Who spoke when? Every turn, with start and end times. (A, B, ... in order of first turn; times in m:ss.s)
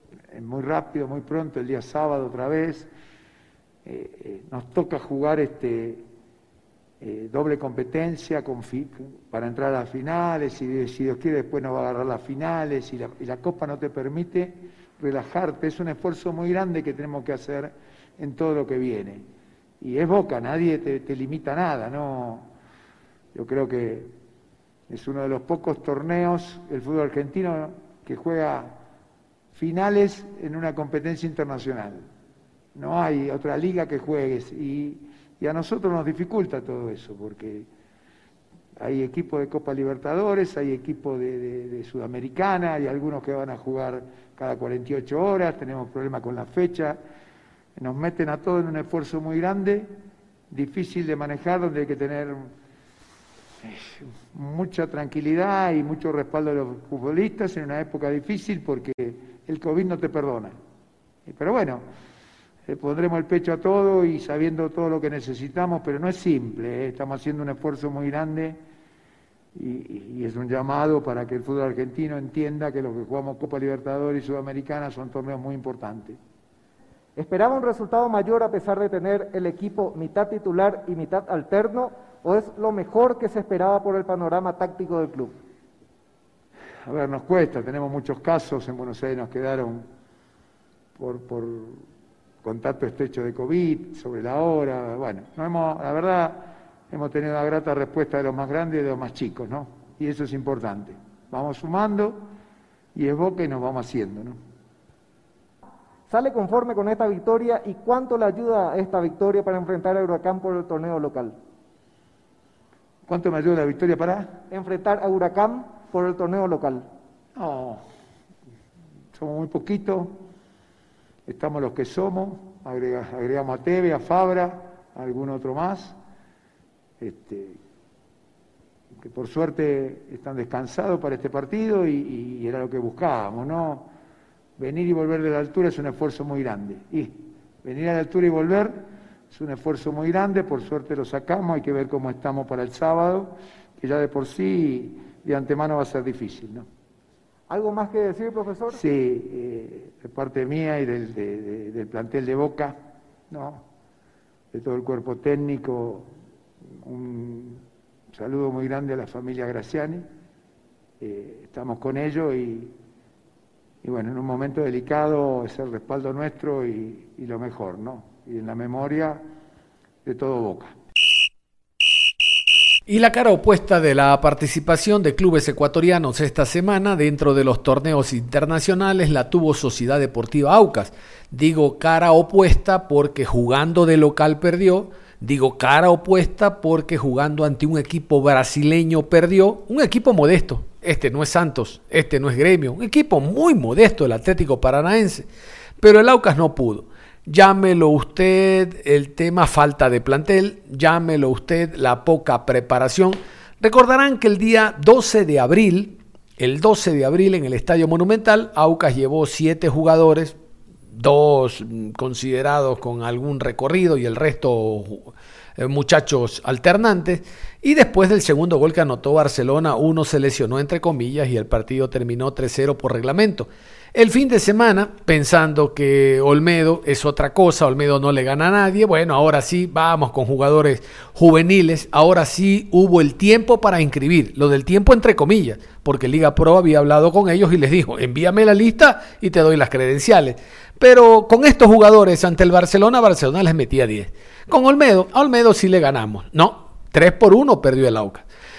0:00.3-0:02.9 A
0:03.8-0:06.0 A
0:07.0-0:19.2 A
0:19.8-0:22.5 A
0:23.3-0:24.1 A
0:24.9-0:28.7 A
0:29.5-0:32.0 A
0:32.7-0:37.7 A
0:38.8-0:47.0 A
0:47.8-0:49.9 A
0:50.5-0:52.5 A
0:53.6-1:00.5 A
1:01.2-1:01.8 A
1:02.7-1:08.6 A
1:09.5-1:16.2 A
1:17.2-1:25.4 B
1:26.9-1:29.8 A
1:31.0-1:31.8 A
1:32.4-1:42.2 A
1:42.9-1:44.4 A
1:46.1-1:51.4 B
1:53.1-1:54.4 A
1:54.5-1:56.8 B
1:57.4-1:57.8 A
1:59.1-2:00.1 A
2:01.2-2:06.0 A
2:07.0-2:07.6 A
2:09.0-2:13.9 A
2:14.6-2:26.6 A
2:27.5-2:28.8 B
2:28.7-2:32.8 A
2:33.3-2:33.6 A
2:34.5-2:36.1 A
2:36.8-2:37.6 A
2:38.1-2:40.0 A
2:41.0-2:42.7 A
2:43.8-2:49.2 A
2:50.0-2:50.7 A
2:52.9-3:15.3 C
3:15.8-3:30.4 C
3:31.0-4:08.2 C